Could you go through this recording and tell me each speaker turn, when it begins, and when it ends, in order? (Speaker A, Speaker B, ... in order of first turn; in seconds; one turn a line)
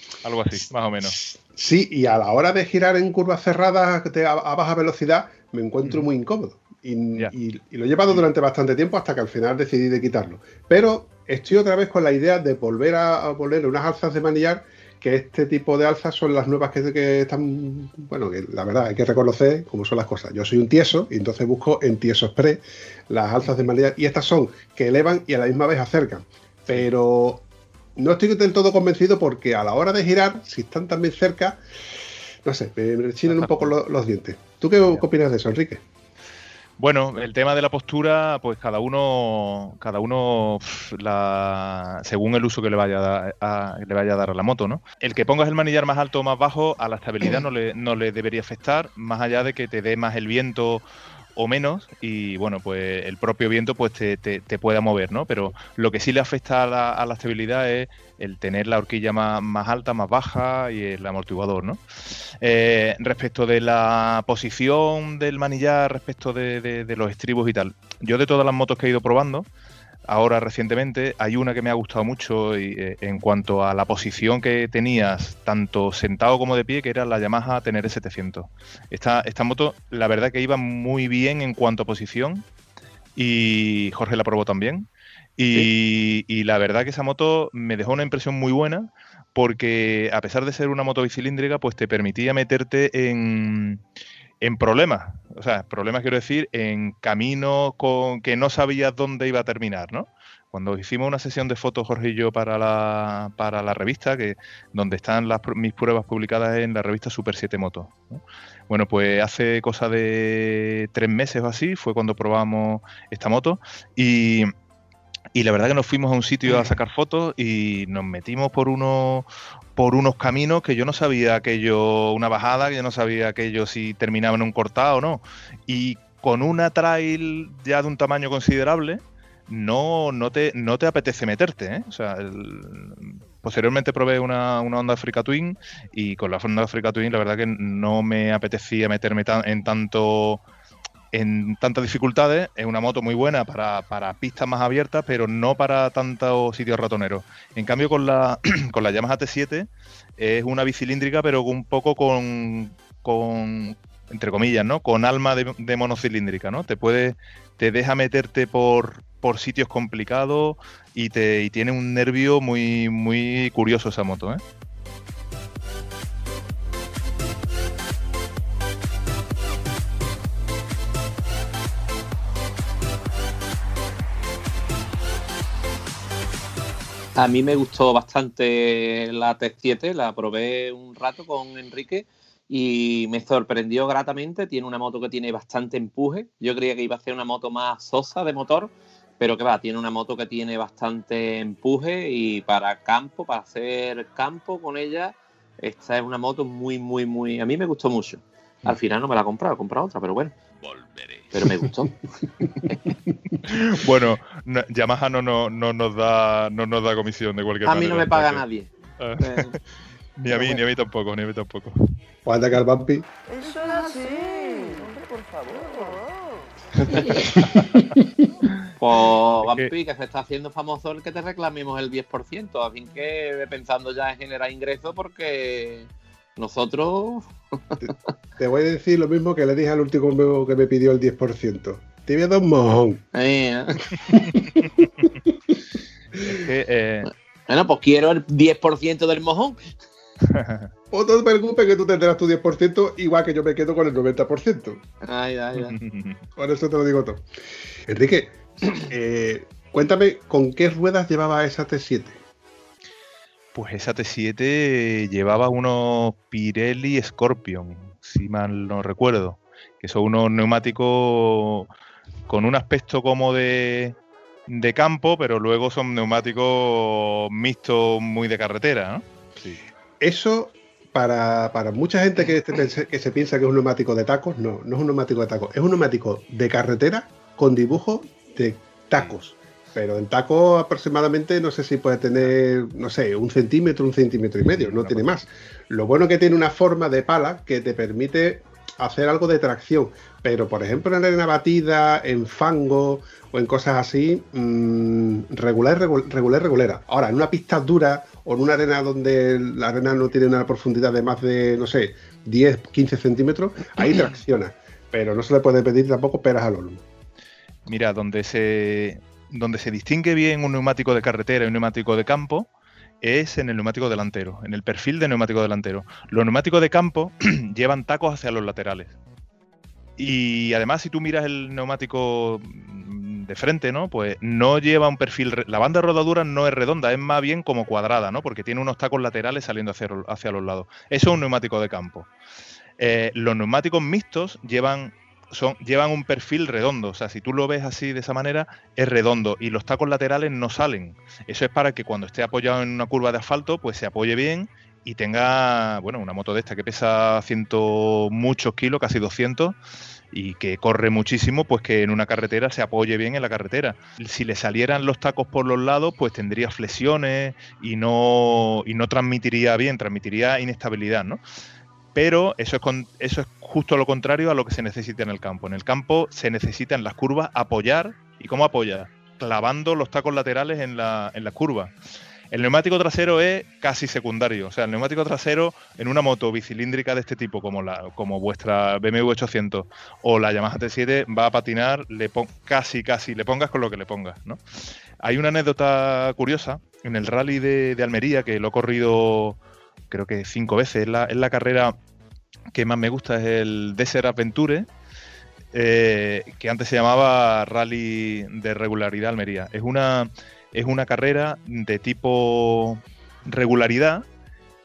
Speaker A: 0.2-1.2
Speaker B: 1.2-27.4
Speaker B: 27.9-31.6
Speaker B: 32.4-35.8
Speaker A: 33.3-33.7
Speaker A: 36.8-50.8
Speaker A: 51.4-61.8
Speaker A: 62.4-69.5
Speaker A: 70.1-82.5
Speaker A: 83.2-93.8
Speaker A: 94.4-114.5
Speaker A: 115.3-140.4
Speaker A: 141.1-164.4
Speaker C: 177.2-200.3
Speaker C: 201.3-202.0
Speaker A: 203.4-208.4
Speaker C: 207.6-209.5
Speaker A: 209.0-209.6
Speaker A: 210.2-211.8
Speaker B: 212.2-213.1
Speaker D: 213.3-216.1
Speaker B: 217.3-217.6
Speaker A: 217.3-217.8
Speaker C: 218.8-227.8
Speaker A: 219.4-219.7
Speaker B: 228.4-233.0
Speaker C: 233.1-233.8
Speaker B: 234.0-235.5
Speaker A: 236.2-237.1
Speaker C: 237.5-239.7
Speaker A: 240.3-240.7
Speaker B: 240.9-244.8
Speaker C: 245.0-245.8
Speaker A: 245.6-246.2
Speaker B: 246.4-247.2
Speaker B: 247.9-252.2
Speaker A: 253.5-261.7
Speaker A: 262.3-269.6
Speaker B: 270.0-306.8
Speaker A: 284.5-285.1
Speaker A: 307.7-312.5
Speaker A: 313.0-318.9
Speaker A: 320.0-332.1
Speaker A: 332.8-349.6
Speaker A: 350.1-361.2
Speaker A: 361.9-371.7
Speaker A: 372.3-384.4
Speaker A: 385.0-389.4
Speaker A: 389.9-391.7
Speaker A: 392.5-394.7
Speaker A: 395.5-404.0